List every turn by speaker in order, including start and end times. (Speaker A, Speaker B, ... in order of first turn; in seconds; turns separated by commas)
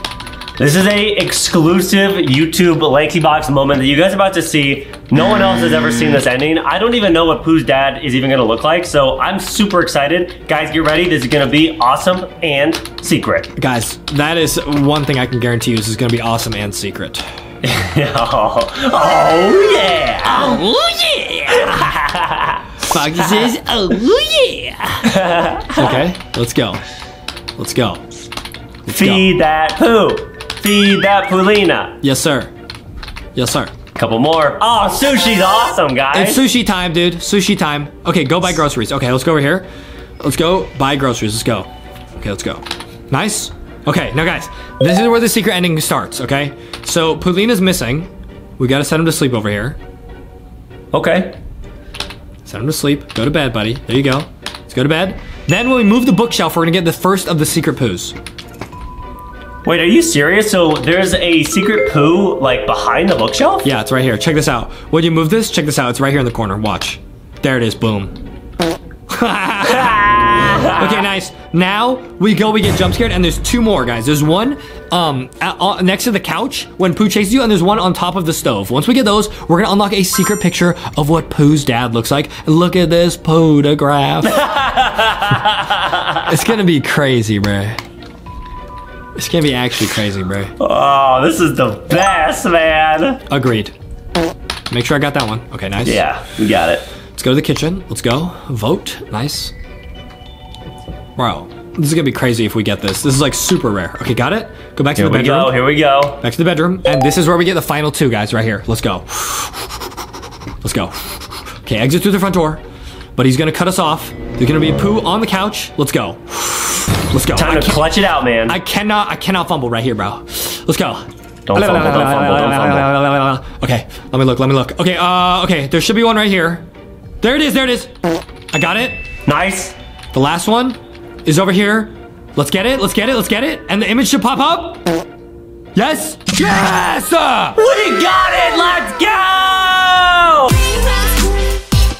Speaker A: 0.6-13.5, Speaker B: 13.6-17.2, Speaker A: 17.6-20.6, Speaker B: 20.2-21.9, Speaker A: 21.5-22.6, Speaker B: 22.8-25.1, Speaker A: 23.2-23.5, Speaker A: 25.0-25.9, Speaker B: 25.7-26.8, Speaker B: 27.6-28.0, Speaker B: 28.9-29.3, Speaker A: 28.9-31.9, Speaker B: 32.0-32.5, Speaker B: 33.3-33.7, Speaker A: 34.0-36.4, Speaker B: 36.1-39.6, Speaker B: 40.2-49.8, Speaker A: 50.9-51.4, Speaker B: 52.5-58.1, Speaker A: 59.6-63.7, Speaker B: 63.6-68.2, Speaker B: 69.1-84.4, Speaker A: 69.8-70.8, Speaker A: 84.2-86.2, Speaker B: 86.2-87.8, Speaker B: 89.2-90.5, Speaker A: 90.6-93.2, Speaker B: 93.3-93.7, Speaker B: 94.7-96.0, Speaker A: 95.8-96.8, Speaker B: 97.1-99.5, Speaker B: 101.2-105.5, Speaker A: 105.0-106.2, Speaker B: 106.2-109.8, Speaker B: 110.6-112.6, Speaker B: 113.2-117.8, Speaker A: 117.3-118.5, Speaker B: 118.5-126.6, Speaker A: 121.5-122.9, Speaker B: 127.2-127.9, Speaker B: 128.5-129.0, Speaker A: 129.2-129.8, Speaker B: 130.1-134.8, Speaker B: 135.7-137.6, Speaker A: 137.6-140.8